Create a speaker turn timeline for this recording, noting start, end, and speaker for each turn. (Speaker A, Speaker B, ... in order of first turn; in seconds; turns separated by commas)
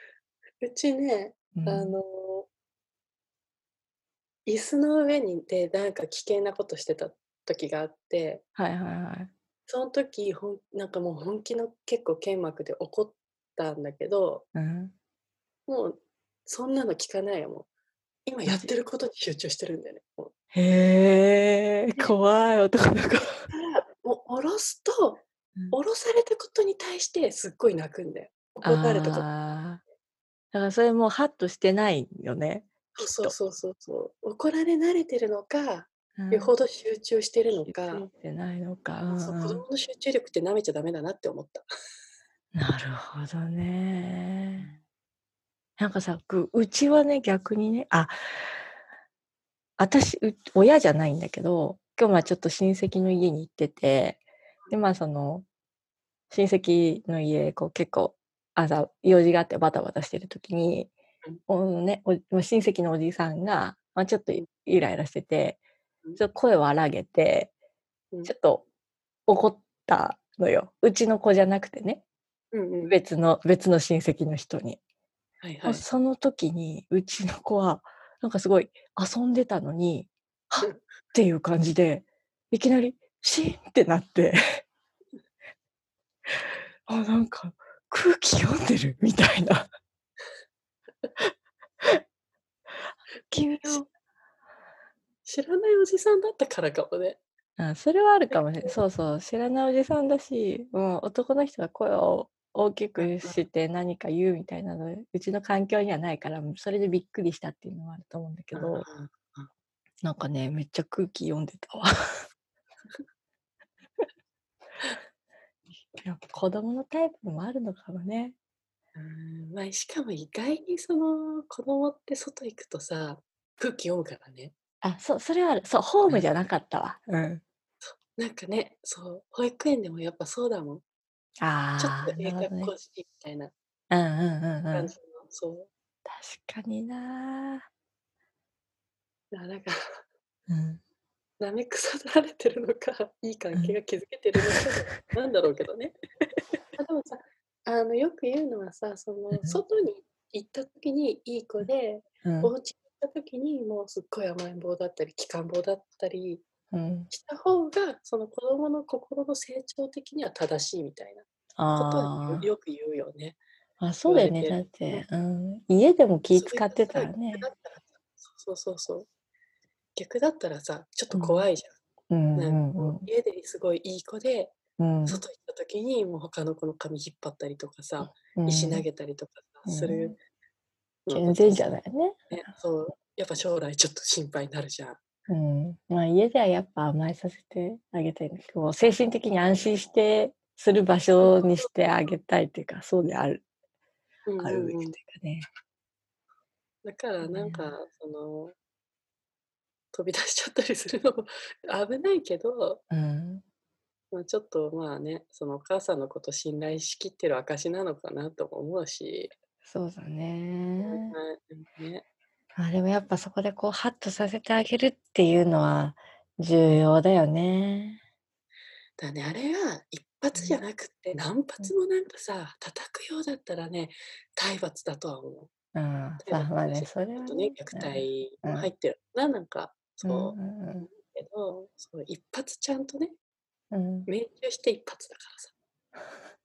Speaker A: 0.6-2.5, Speaker B: 1.5-2.0, Speaker A: 4.5-8.4, Speaker B: 8.6-9.3, Speaker A: 9.7-14.4, Speaker B: 14.5-14.9, Speaker A: 15.7-17.7, Speaker A: 18.2-20.3, Speaker B: 20.5-23.4, Speaker A: 23.5-29.3, Speaker B: 28.6-29.8, Speaker B: 30.5-33.3, Speaker A: 33.0-38.1, Speaker B: 36.2-36.5, Speaker B: 37.6-39.6, Speaker A: 39.1-41.7, Speaker B: 42.5-44.7, Speaker B: 45.8-48.6, Speaker B: 49.8-55.5, Speaker B: 56.3-60.9, Speaker B: 61.5-65.6, Speaker B: 66.2-67.5, Speaker B: 68.2-68.6, Speaker B: 69.3-72.0, Speaker A: 72.5-73.0, Speaker B: 72.9-74.8, Speaker A: 75.4-75.8, Speaker B: 75.6-84.6, Speaker B: 86.9-89.7, Speaker B: 93.3-93.9, Speaker A: 95.2-97.2, Speaker B: 97.6-108.9, Speaker A: 98.3-98.7, Speaker A: 103.0-103.4, Speaker A: 108.5-109.5, Speaker B: 110.0-112.2, Speaker B: 115.9-118.3, Speaker A: 119.0-124.5, Speaker B: 124.8-127.4, Speaker A: 127.8-130.8, Speaker B: 131.4-132.7, Speaker A: 131.8-133.5, Speaker B: 133.9-134.9, Speaker A: 134.7-135.7, Speaker B: 136.1-137.7, Speaker A: 139.3-139.8, Speaker B: 140.5-140.8, Speaker A: 141.4-146.0, Speaker B: 144.4-144.6, Speaker A: 146.8-156.4, Speaker B: 149.3-149.6, Speaker B: 152.2-152.5, Speaker B: 156.7-157.1, Speaker A: 157.1-163.4, Speaker B: 161.6-162.4, Speaker B: 163.8-167.4, Speaker A: 164.1-165.0, Speaker A: 166.3-169.1, Speaker A: 169.9-171.7, Speaker B: 171.1-171.4, Speaker B: 172.1-173.1, Speaker A: 172.3-174.5, Speaker B: 174.8-175.2, Speaker A: 175.1-180.2, Speaker B: 178.0-178.8, Speaker B: 179.7-180.2, Speaker A: 181.1-181.8, Speaker B: 181.1-182.2, Speaker A: 182.3-185.0, Speaker B: 185.3-193.4, Speaker A: 191.2-191.7, Speaker A: 194.3-195.0, Speaker B: 194.4-195.5, Speaker A: 196.8-198.5, Speaker B: 197.2-197.7, Speaker A: 199.9-202.8, Speaker B: 202.9-203.4, Speaker A: 204.1-209.3, Speaker B: 209.6-211.2, Speaker A: 210.8-212.0, Speaker B: 212.6-218.0, Speaker A: 219.0-225.5, Speaker B: 225.7-228.7, Speaker A: 226.2-233.1, Speaker B: 230.0-230.9, Speaker B: 233.7-234.1, Speaker A: 234.1-235.5